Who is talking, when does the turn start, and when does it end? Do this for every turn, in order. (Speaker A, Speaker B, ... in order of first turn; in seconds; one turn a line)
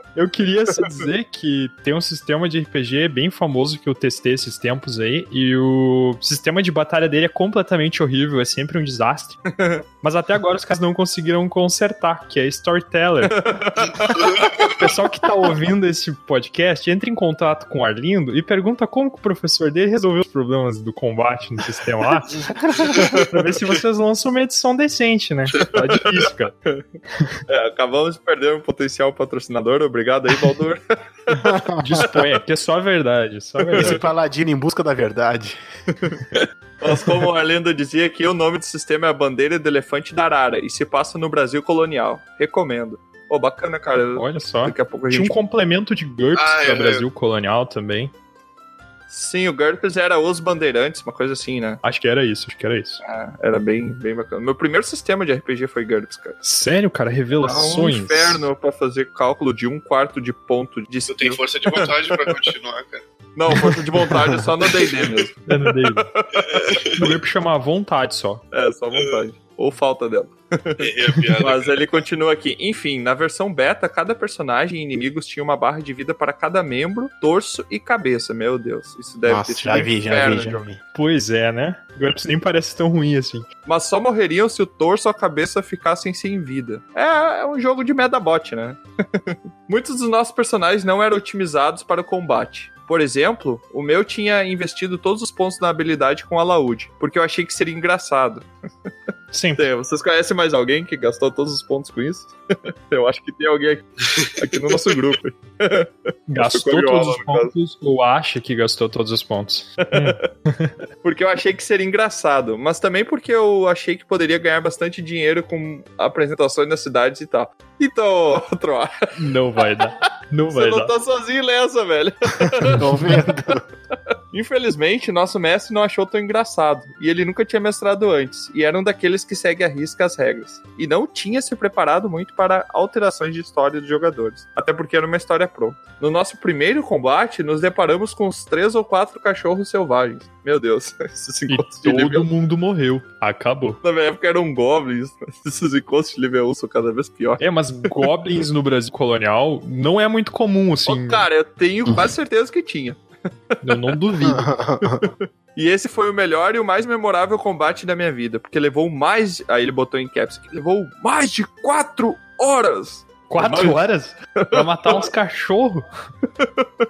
Speaker A: 0.1-9.4
Speaker B: 9.5-9.8
Speaker A: 10.0-13.4
Speaker B: 13.3-14.7
Speaker C: 14.2-14.7
Speaker A: 14.6-26.5
Speaker B: 27.5-30.8
Speaker D: 31.3-32.1
Speaker A: 31.8-34.0
Speaker B: 33.6-34.0
Speaker D: 33.8-35.6
Speaker B: 36.8-45.4
Speaker A: 44.1-48.1
Speaker C: 46.3-47.0
Speaker B: 49.1-51.8
Speaker A: 51.8-53.0
Speaker B: 53.0-56.4
Speaker A: 56.4-58.4
Speaker B: 57.4-62.5
Speaker C: 61.1-63.0
Speaker B: 63.4-66.7
Speaker D: 64.0-64.5
Speaker A: 65.5-66.0
Speaker C: 66.4-67.0
Speaker A: 67.0-68.4
Speaker B: 68.5-80.6
Speaker C: 70.8-72.0
Speaker D: 79.2-80.8
Speaker A: 80.9-83.5
Speaker B: 83.6-98.5
Speaker A: 99.3-99.6
Speaker B: 99.5-102.3
Speaker B: 102.9-107.5
Speaker A: 106.3-110.7
Speaker B: 111.0-118.9
Speaker A: 119.2-120.9
Speaker B: 120.5-123.1
Speaker D: 122.7-123.6
Speaker B: 124.3-142.3
Speaker A: 141.5-143.8
Speaker B: 143.8-147.4
Speaker A: 147.4-151.2
Speaker B: 150.9-153.9
Speaker A: 153.6-154.5
Speaker D: 154.2-155.1
Speaker B: 155.0-163.8
Speaker A: 163.3-165.8
Speaker B: 166.4-166.7